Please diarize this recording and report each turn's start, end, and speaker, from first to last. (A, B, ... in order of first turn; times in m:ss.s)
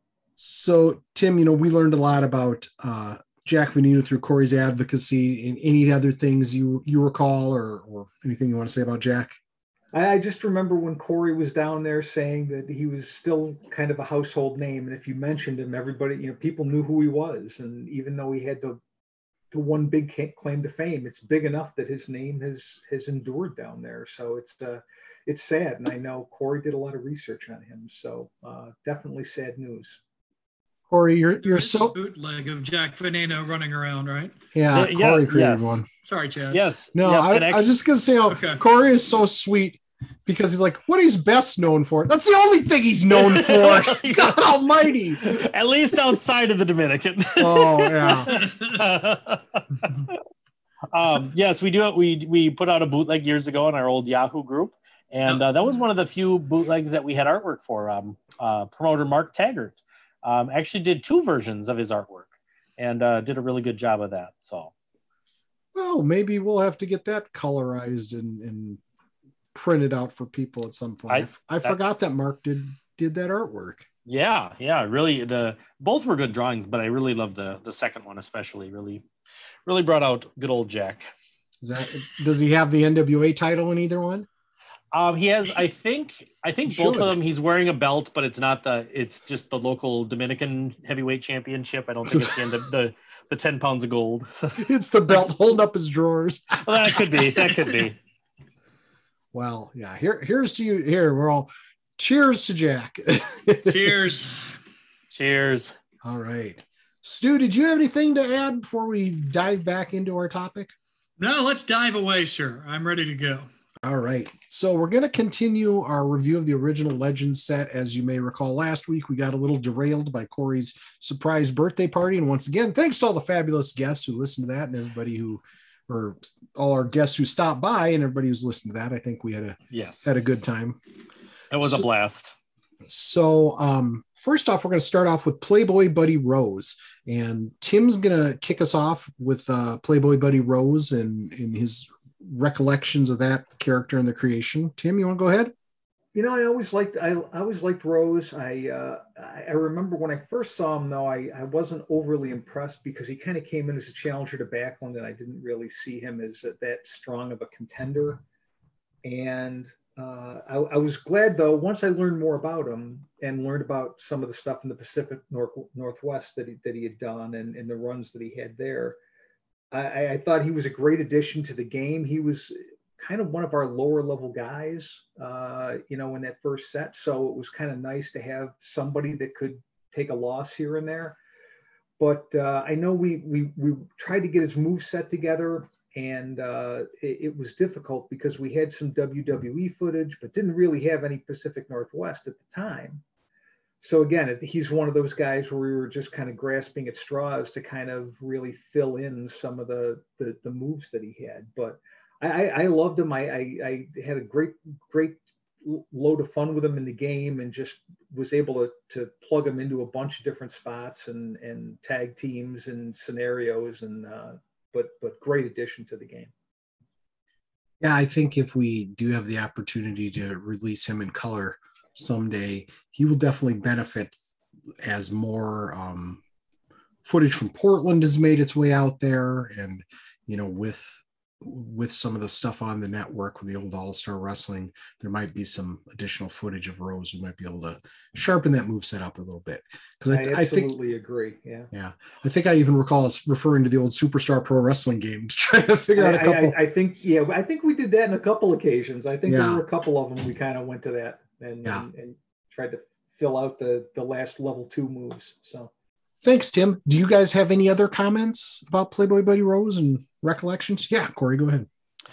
0:00.4-0:09.4 A
0:09.9-0:18.8 B
0:19.5-0:30.0 B
0:30.9-0:31.9 A
0:31.4-0:34.3 C
0:34.5-0:35.9 A
0:34.7-0:35.8 D
0:36.0-0:36.6 C
0:36.5-0:37.7 D
0:36.9-0:45.5 A
0:38.3-0:38.6 C
0:43.1-0:44.6 D
0:45.2-0:50.2 D
0:47.4-0:48.4 A
0:50.9-1:04.7 D
1:05.8-1:08.8 A
1:09.5-1:13.9 A
1:11.1-1:11.8 D
1:14.1-1:19.0 D
1:19.6-1:21.1 D
1:21.6-1:24.3 A
1:24.9-1:34.6 D
1:26.7-1:27.2 A
1:32.1-1:32.4 A
1:34.6-1:37.0 A
1:36.6-1:38.0 D
1:39.3-1:44.0 A
1:43.6-1:44.3 C
1:45.1-1:45.7 D
1:46.0-1:50.7 A
1:51.2-1:53.5 C
1:53.8-2:10.8 A
2:09.7-2:10.1 D
2:11.5-2:12.3 D
2:11.6-2:11.9 A
2:12.8-2:25.5 A
2:26.1-2:38.2 B
2:39.0-2:49.0 B
2:49.7-3:01.2 B
3:02.0-3:13.0 B
3:13.8-3:36.3 B
3:37.8-3:44.2 A
3:44.8-3:46.2 A
3:47.0-4:00.7 A
4:00.1-4:01.7 B
4:01.7-4:06.6 A
4:06.0-4:15.7 B
4:09.3-4:09.6 A
4:16.2-4:21.7 A